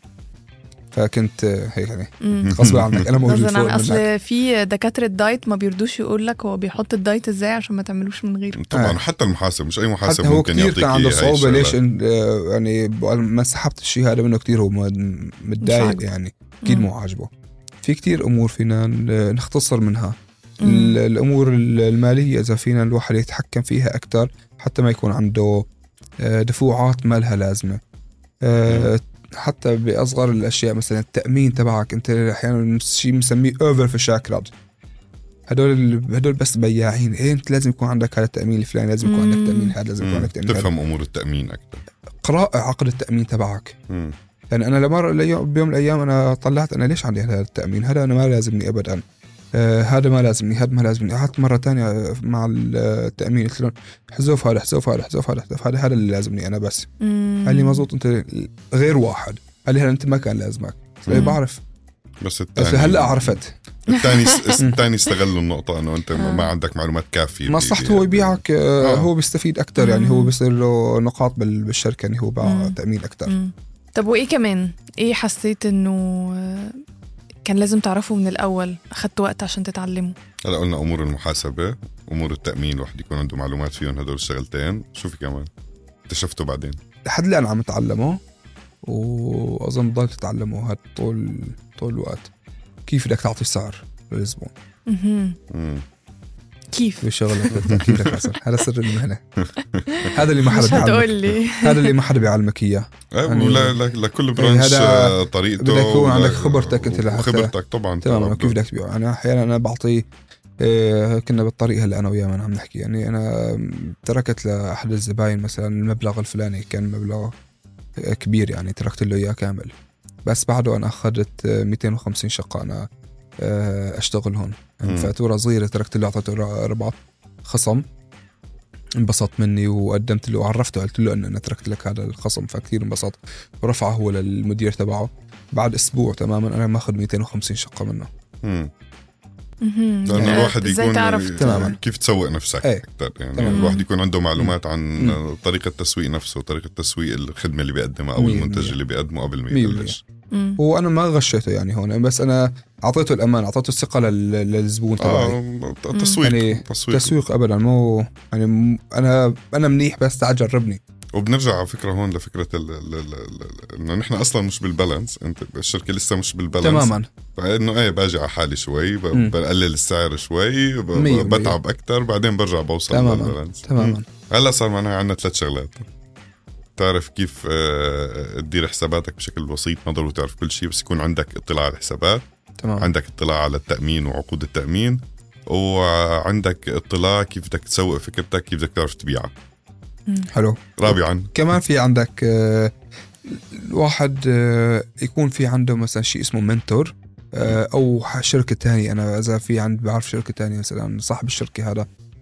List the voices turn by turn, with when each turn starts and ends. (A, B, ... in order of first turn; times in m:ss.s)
0:00.9-0:04.1 A
0:02.2-0:02.6 B
0:02.4-0:03.1 C
0:03.1-0:08.6 B
0:08.6-0:11.7 C
0:08.7-0:09.0 A
0:10.0-0:17.3 A
0:15.6-0:16.0 B
0:17.8-0:25.7 A
0:20.6-0:21.0 B
0:26.2-0:27.8 A
0:28.4-0:34.5 A
0:28.7-0:28.9 C
0:35.5-0:40.7 A
0:39.0-0:39.8 B
0:40.0-0:41.8 C
0:42.2-0:43.8 A
0:43.9-0:44.1 C
0:44.5-0:49.0 A
0:49.5-0:56.9 A
0:57.0-0:57.9 B
0:57.4-1:01.6 A
1:01.0-1:01.3 C
1:01.1-1:01.4 B
1:02.2-1:09.1 C
1:02.6-1:03.5 A
1:03.9-1:04.6 B
1:04.6-1:04.9 A
1:06.2-1:06.5 B
1:07.5-1:13.3 A
1:09.8-1:10.3 B
1:12.4-1:16.8 B
1:17.4-1:20.1 B
1:20.4-1:25.5 C
1:26.1-1:26.8 C
1:27.0-1:28.2 A
1:28.8-1:32.3 A
1:32.9-1:34.5 A
1:34.9-1:35.4 B
1:35.5-1:35.8 C
1:36.7-1:37.7 B
1:37.0-1:39.2 A
1:37.7-1:38.2 C
1:39.4-1:40.1 C
1:39.9-1:41.9 B
1:40.1-1:43.8 A
1:43.2-1:48.6 C
1:44.4-1:47.5 A
1:48.0-1:50.1 A
1:50.6-1:57.3 A
1:58.0-1:59.7 A
2:00.2-2:02.9 A
2:03.4-2:07.8 A
2:04.8-2:05.1 C
2:09.0-2:18.1 A
2:18.4-2:18.7 C
2:19.6-2:21.8 B
2:20.0-2:30.0 C
2:20.1-2:20.5 A
2:21.4-2:21.8 A
2:23.3-2:23.7 A
2:23.5-2:23.8 B
2:24.4-2:25.2 A
2:28.2-2:28.8 A
2:29.5-2:30.0 A
2:30.3-2:30.6 B
2:30.6-2:35.4 A
2:35.0-2:37.1 C
2:36.2-2:40.8 A
2:41.1-2:55.9 C
2:46.6-2:47.1 A
2:51.0-2:51.6 A
2:52.9-2:54.0 A
2:56.8-3:02.2 C
3:02.6-3:02.9 A
3:02.8-3:09.3 C
3:10.3-3:12.7 A
3:10.8-3:11.3 C
3:13.2-3:21.9 A